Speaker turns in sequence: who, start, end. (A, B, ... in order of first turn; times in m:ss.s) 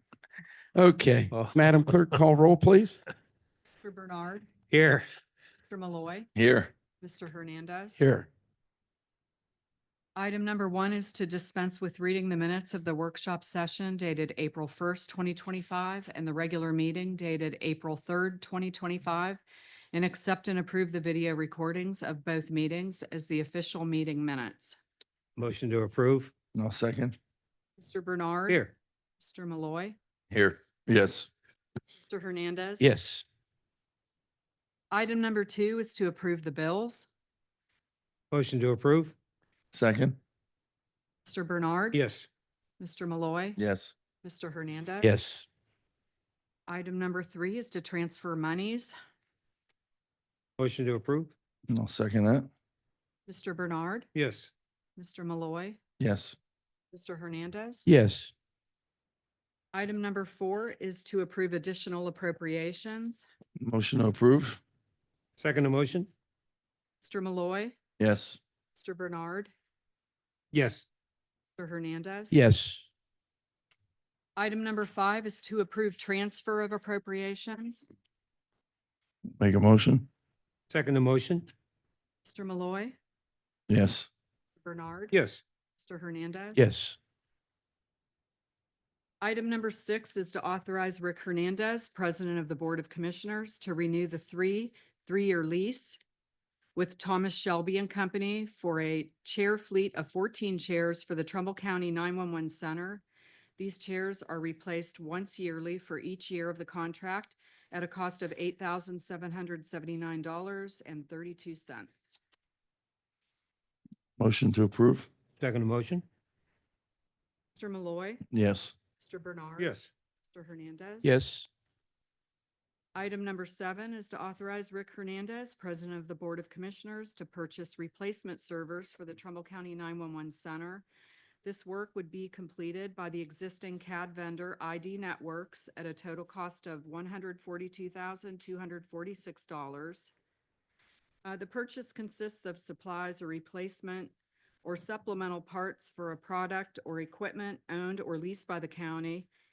0:00.8-0:03.0 A
0:03.8-0:04.5 B
0:04.7-0:05.0 C
0:05.6-0:06.3 B
0:06.4-0:06.7 D
0:07.0-0:08.0 B
0:08.0-0:08.3 A
0:10.2-0:19.4 B
0:19.9-0:24.8 B
0:25.4-0:26.3 C
0:26.6-0:27.2 D
0:27.8-0:28.6 B
0:29.2-0:30.0 B
0:30.3-0:31.3 D
0:32.0-0:32.9 B
0:32.8-0:33.2 A
0:34.9-0:37.1 B
0:38.3-0:39.1 C
0:39.7-0:40.2 D
0:41.2-0:42.0 B
0:41.9-0:42.3 C
0:42.8-0:43.6 B
0:43.6-0:44.0 D
0:44.2-0:45.2 B
0:45.0-0:45.5 A
0:46.7-0:48.9 B
0:50.6-0:51.3 C
0:51.7-0:52.5 D
0:53.3-0:54.1 B
0:54.2-0:54.5 C
0:55.0-0:55.8 B
0:56.0-0:56.4 D
0:56.9-0:57.9 B
0:57.9-0:58.3 A
0:59.7-1:03.3 B
1:03.6-1:04.6 D
1:05.4-1:06.1 C
1:07.0-1:07.8 B
1:08.0-1:08.4 D
1:08.7-1:09.5 B
1:10.5-1:10.8 C
1:11.6-1:12.4 B
1:12.3-1:12.8 A
1:14.4-1:17.8 B
1:19.4-1:20.1 D
1:20.7-1:21.5 C
1:22.2-1:23.0 B
1:23.7-1:24.1 D
1:24.6-1:25.2 B
1:25.1-1:25.4 C
1:25.8-1:26.6 B
1:26.6-1:27.0 A
1:29.2-1:36.0 B
1:36.8-1:43.0 B
1:43.6-1:52.2 B
1:54.2-1:55.1 D
1:55.4-1:56.0 C
1:57.6-1:58.2 B
1:58.3-1:58.7 D
1:59.0-2:01.2 B
1:59.6-1:59.9 C
2:01.0-2:01.5 A
2:03.0-2:10.9 B
2:11.4-2:20.1 B
2:21.2-2:24.1 B
2:24.6-2:29.3 B